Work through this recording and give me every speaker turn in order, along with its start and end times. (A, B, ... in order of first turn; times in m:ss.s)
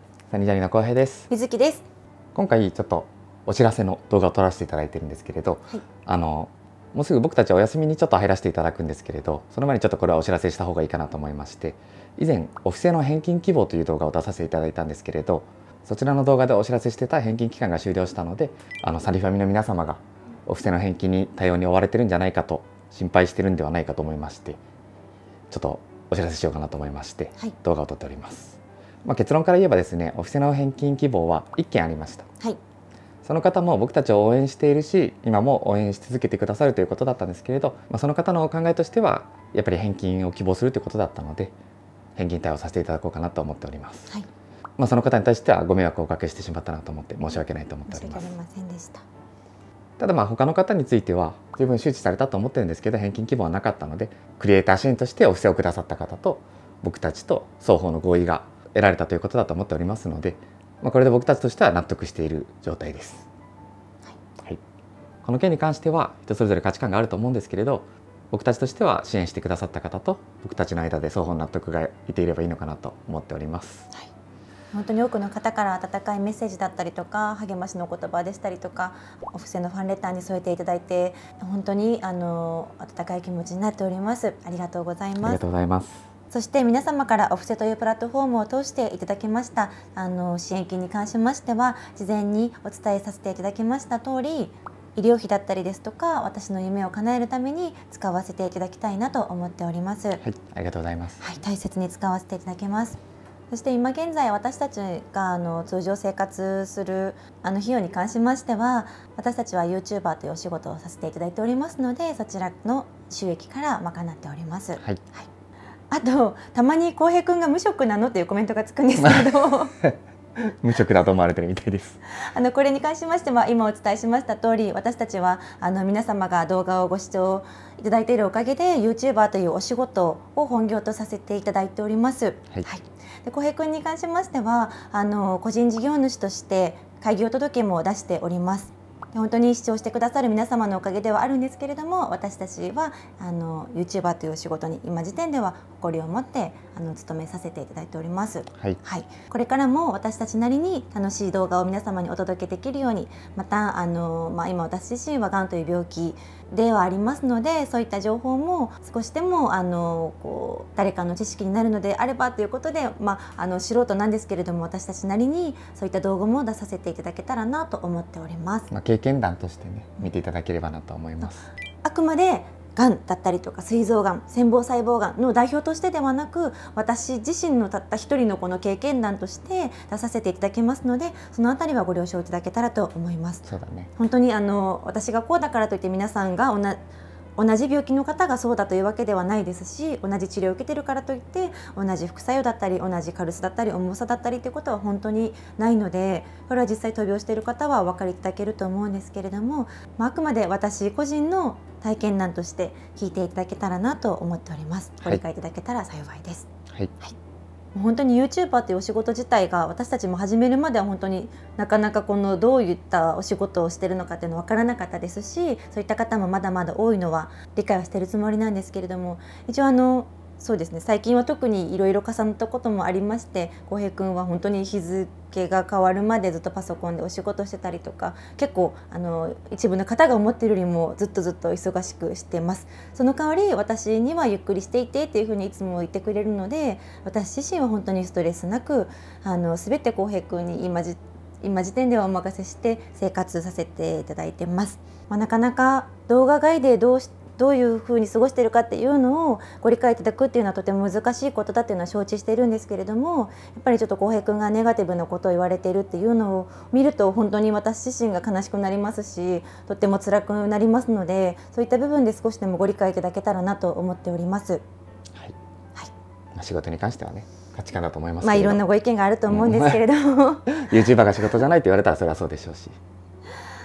0:00.3-0:01.3 A
0:01.3-0:01.8 B
0:02.4-0:24.6 A
0:25.5-0:32.3 A
0:33.2-0:41.5 A
0:42.2-0:44.1 A
0:44.8-0:48.3 A
0:47.9-0:49.0 B
0:50.0-1:03.3 A
1:05.2-1:13.9 A
1:14.7-1:25.4 B
1:25.2-1:26.1 A
1:26.3-1:40.2 B
1:40.2-1:41.3 A
1:41.2-1:55.3 B
1:55.9-1:59.8 B
1:59.8-2:02.0 A
2:02.2-2:48.7 B
2:48.7-2:51.5 A
2:51.8-3:06.8 B
3:03.4-3:03.9 A
3:07.4-3:26.5 B
3:27.8-4:24.6 B
4:26.4-4:28.6 A
4:28.2-4:30.8 B
4:29.3-4:29.8 A
4:30.5-4:32.8 A